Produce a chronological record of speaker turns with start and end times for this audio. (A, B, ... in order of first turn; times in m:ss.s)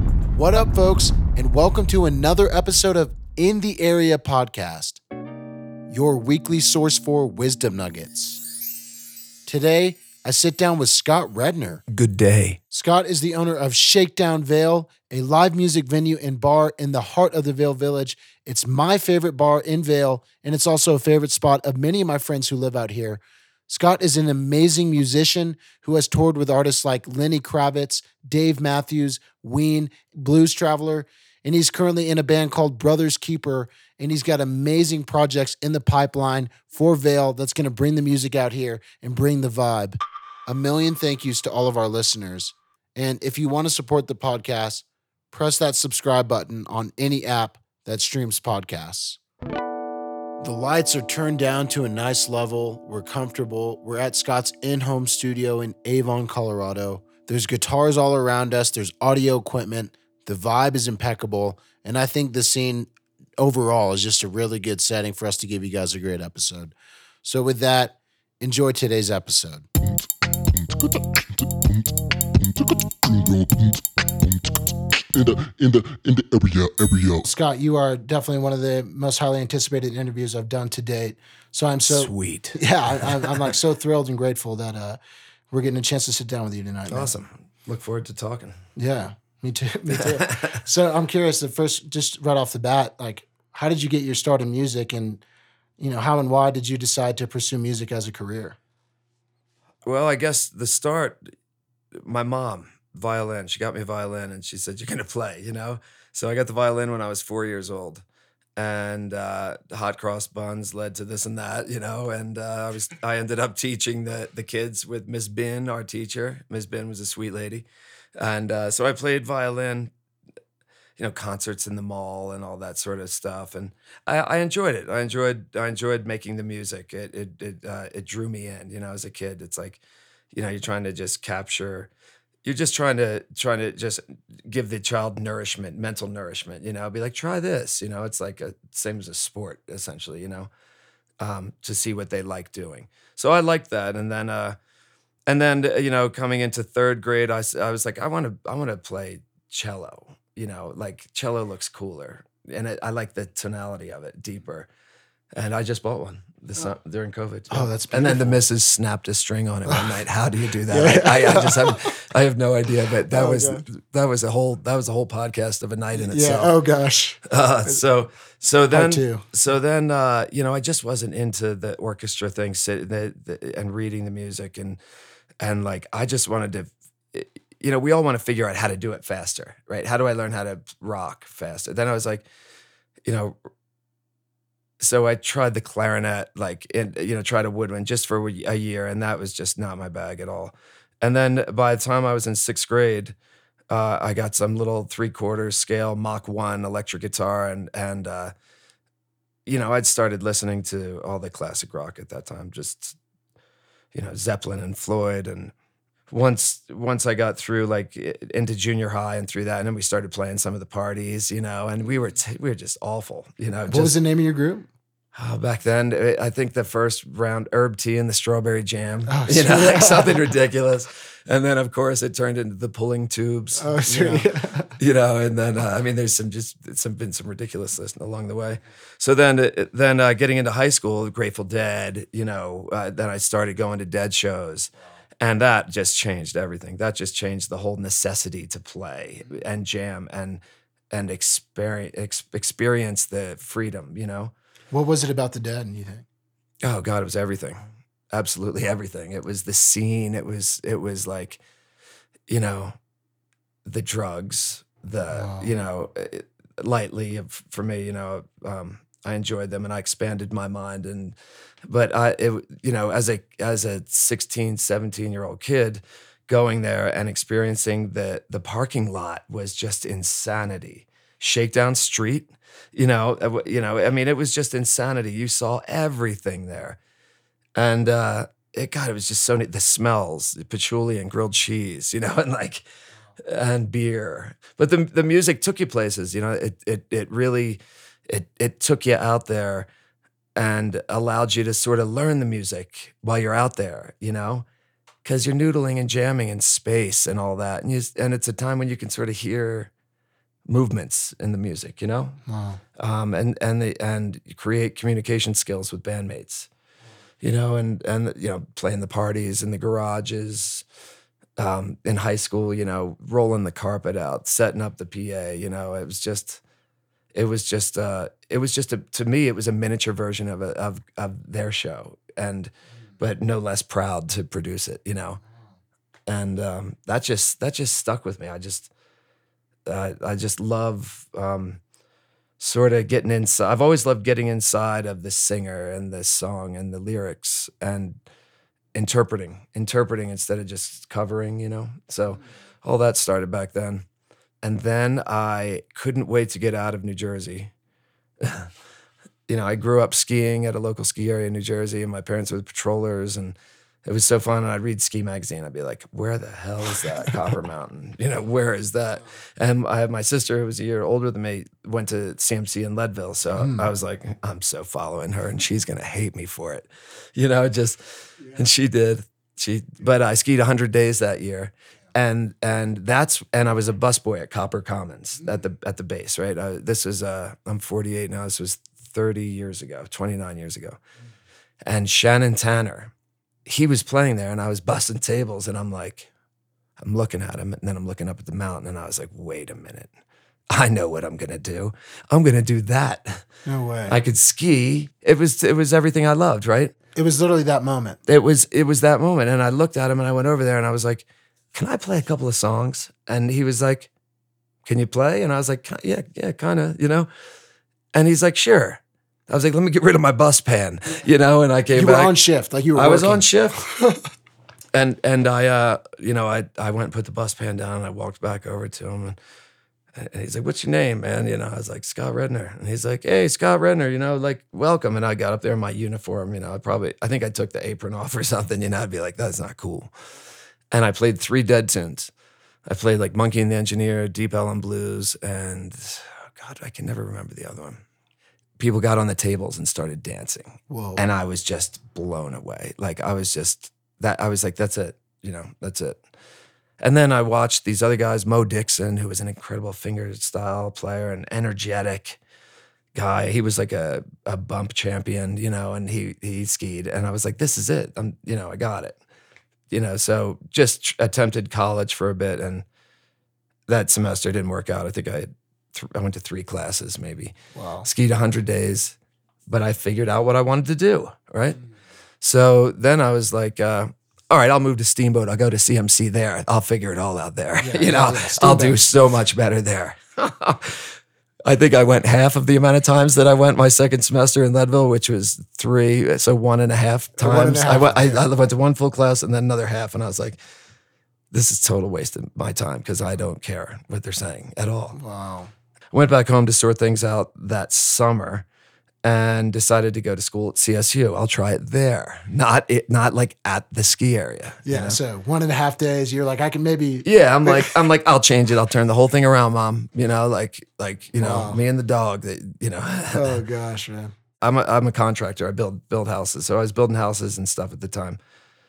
0:00.3-0:05.0 A
0:05.9-0:08.4 A
0:09.4-0:11.8 A
0:11.9-0:12.6 B
0:12.7-0:49.2 A
0:50.4-1:09.7 A
1:09.8-1:17.2 C
1:17.2-1:25.0 A
1:21.9-1:23.5 B
1:25.5-1:27.1 A
1:26.9-1:28.6 B
1:28.8-1:35.2 A
1:30.0-1:30.5 B
1:35.8-1:38.6 A
1:39.8-1:41.3 B
1:42.0-1:48.0 B
1:48.6-1:59.9 B
2:01.0-2:11.9 B
2:12.4-2:20.5 B
2:21.2-2:24.6 B
2:25.3-2:34.7 B
2:35.4-2:46.5 B
2:37.5-2:38.4 A
2:40.7-2:42.0 A
2:43.1-2:43.6 A
2:45.9-2:47.8 A
2:47.2-2:54.8 B
2:48.7-2:49.2 A
2:55.4-3:02.2 B
3:03.0-3:03.4 B
3:04.8-3:13.1 B
3:13.7-3:18.3 B
3:19.4-3:23.0 B
3:23.9-3:25.5 B
3:26.1-3:34.0 B
3:33.7-3:34.7 A
3:35.1-4:04.3 B
3:39.1-3:40.2 A
3:43.6-3:44.8 A
4:04.7-4:06.0 A
4:06.6-4:07.6 B
4:08.1-4:11.4 B
4:12.3-4:12.8 B
4:13.6-4:36.8 B
4:15.1-4:15.5 A
4:37.6-4:42.6 B
4:43.2-4:49.7 B
4:50.4-4:54.4 B
4:55.0-4:59.7 B
5:00.4-5:02.2 B
5:02.3-5:02.6 A
5:02.8-5:06.5 B
5:07.2-5:10.6 B
5:11.4-5:16.4 B
5:17.1-5:25.2 B
5:26.1-5:28.7 B
5:29.6-5:31.6 B
5:32.4-5:38.0 B
5:38.7-5:43.8 B
5:44.4-5:47.5 B
5:48.2-5:48.5 B
5:49.3-6:20.8 B
6:03.4-6:03.7 A
6:21.6-6:22.9 B
6:23.4-6:26.1 B
6:26.8-6:29.9 B
6:30.5-6:33.2 B
6:33.4-6:34.0 A
6:33.9-6:36.7 B
6:36.9-6:38.0 A
6:38.1-6:43.9 B
6:44.6-6:47.1 B
6:47.9-6:52.2 B
6:51.7-6:53.9 A
6:52.7-6:53.6 B
6:54.7-6:59.2 B
7:00.0-7:09.9 B
7:10.7-7:12.1 B
7:12.6-7:17.8 B
7:18.6-7:26.0 B
7:20.7-7:21.0 A
7:26.8-7:32.2 B
7:32.9-7:39.0 B
7:39.7-7:42.6 B
7:43.7-7:49.0 B
7:47.5-7:47.9 A
7:49.5-7:51.6 B
7:52.2-8:10.4 B
7:57.6-7:58.8 A
8:07.2-8:08.2 A
8:11.3-8:15.0 B
8:14.9-8:15.5 A
8:15.9-8:18.4 B
8:19.0-8:25.0 B
8:24.6-8:27.8 A
8:27.0-8:33.4 B
8:31.2-8:31.6 A
8:33.1-8:34.1 A
8:34.4-8:38.2 B